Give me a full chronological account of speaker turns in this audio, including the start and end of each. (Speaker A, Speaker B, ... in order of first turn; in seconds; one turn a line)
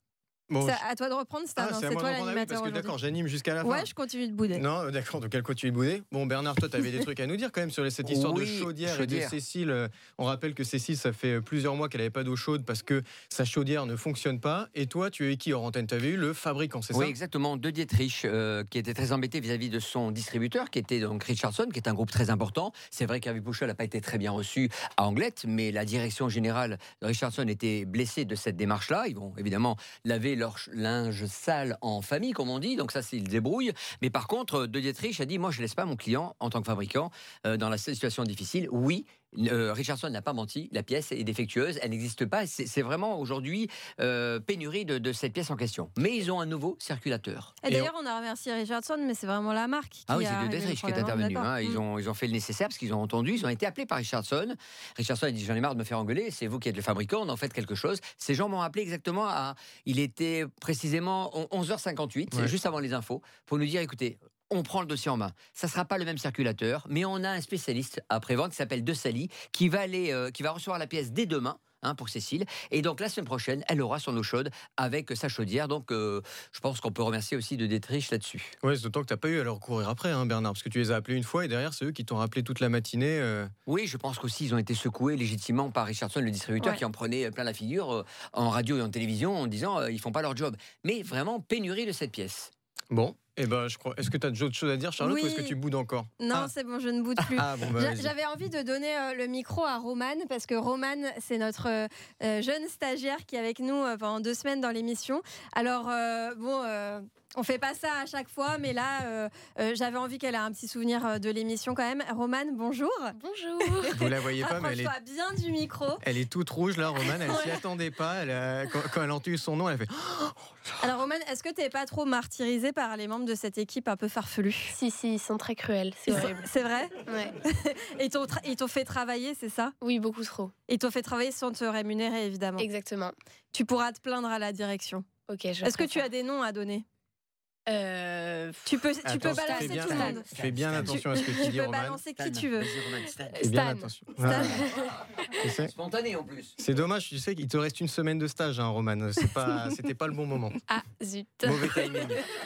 Speaker A: 0.5-0.8
Speaker B: 0.6-2.9
Speaker A: 1.6-3.9
Speaker B: 3.6-4.6
Speaker A: 4.5-17.1
Speaker C: 8.1-9.3
Speaker C: 16.9-47.6
Speaker B: 47.6-51.8
Speaker C: 50.1-78.5
Speaker A: 78.6-83.5
Speaker C: 83.7-92.5
Speaker A: 92.9-96.5
Speaker B: 95.0-95.6
Speaker B: 96.2-116.0
Speaker A: 97.2-98.1
Speaker D: 113.2-114.0
Speaker A: 113.9-114.9
Speaker A: 116.0-120.5
Speaker B: 120.8-124.7
Speaker D: 124.7-126.5
Speaker B: 126.1-129.7
Speaker D: 127.1-127.3
Speaker D: 129.8-130.5
Speaker B: 130.7-132.7
Speaker D: 132.6-133.2
Speaker B: 133.5-135.1
Speaker D: 135.3-136.0
Speaker B: 135.6-136.8
Speaker D: 137.7-140.2
Speaker B: 138.7-140.2
Speaker A: 139.0-142.0
Speaker C: 140.1-141.1
Speaker B: 140.9-142.7
Speaker D: 141.2-141.4
Speaker C: 142.2-143.4
Speaker D: 143.3-145.0
Speaker A: 143.4-144.6
Speaker A: 145.4-145.7
Speaker C: 145.6-146.6
Speaker A: 146.6-150.6
Speaker D: 150.7-152.2
Speaker A: 151.4-152.2